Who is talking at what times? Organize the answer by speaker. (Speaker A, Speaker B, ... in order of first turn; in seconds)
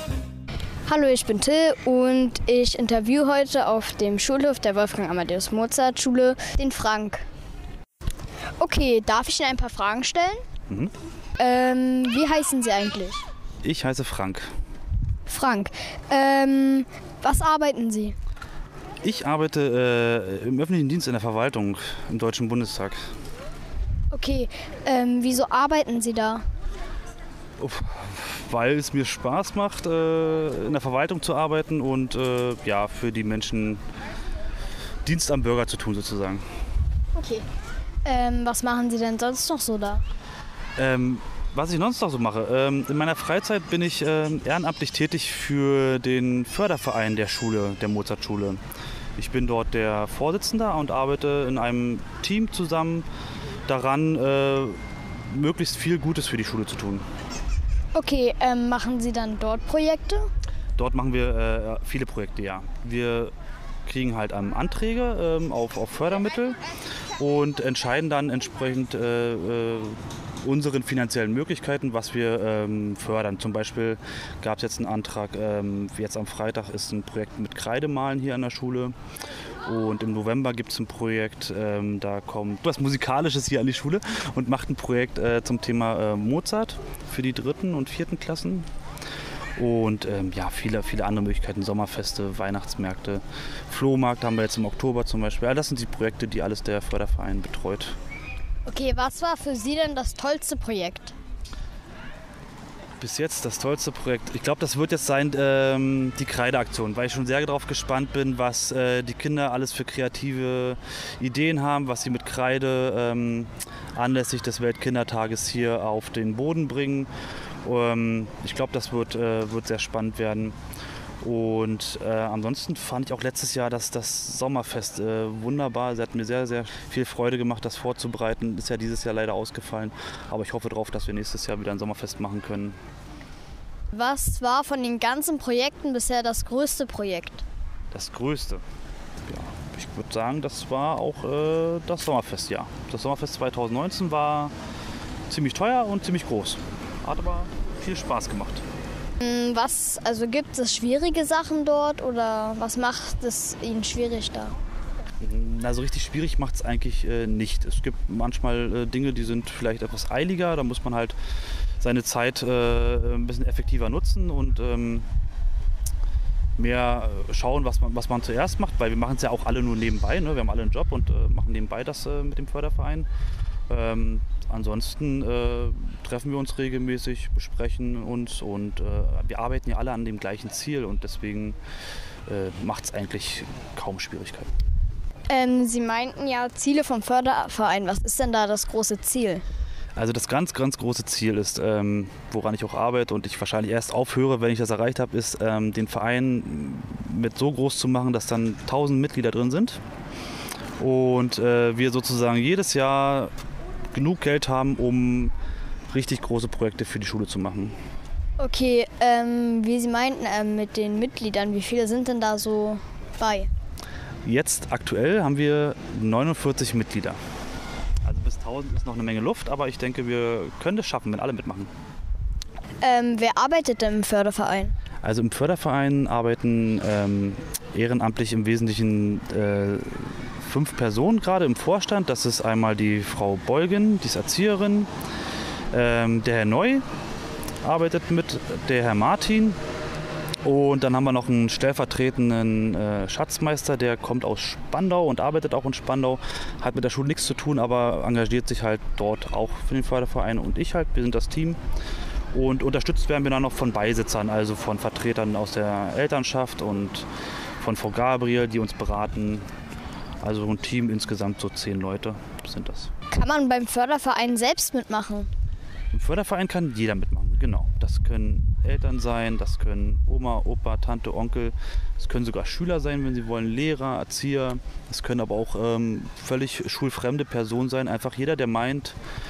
Speaker A: 0.8-7.3, 8.6-10.4, 11.4-13.2, 15.2-18.1, 24.1-26.4, 37.1-37.4, 38.0-40.0, 57.9-60.3, 98.7-101.1, 133.9-137.4, 149.2-154.6, 185.3-189.4, 208.4-213.5, 222.8-224.7, 263.1-265.3
Speaker B: 13.6-14.5, 19.0-23.1, 27.6-33.8, 35.0-36.4, 40.8-48.6, 49.2-53.0, 53.7-57.0, 60.8-63.3, 63.9-66.6, 67.2-78.9, 79.7-88.7, 89.6-98.0, 103.0-117.1, 117.6-120.5, 121.2-132.8, 137.9-138.6, 139.2-144.5, 145.3-148.6, 155.2-161.1, 161.8-165.1, 166.6-173.1, 173.7-181.6, 182.3-184.5, 189.9-199.8, 200.8-203.3, 203.9-205.3, 205.9-207.7, 214.2-217.2, 218.0-221.7, 225.0-234.9, 235.7-236.8, 237.6-239.6, 240.4-251.6, 252.3-257.1, 257.6-259.4, 260.2-262.9, 265.9-278.9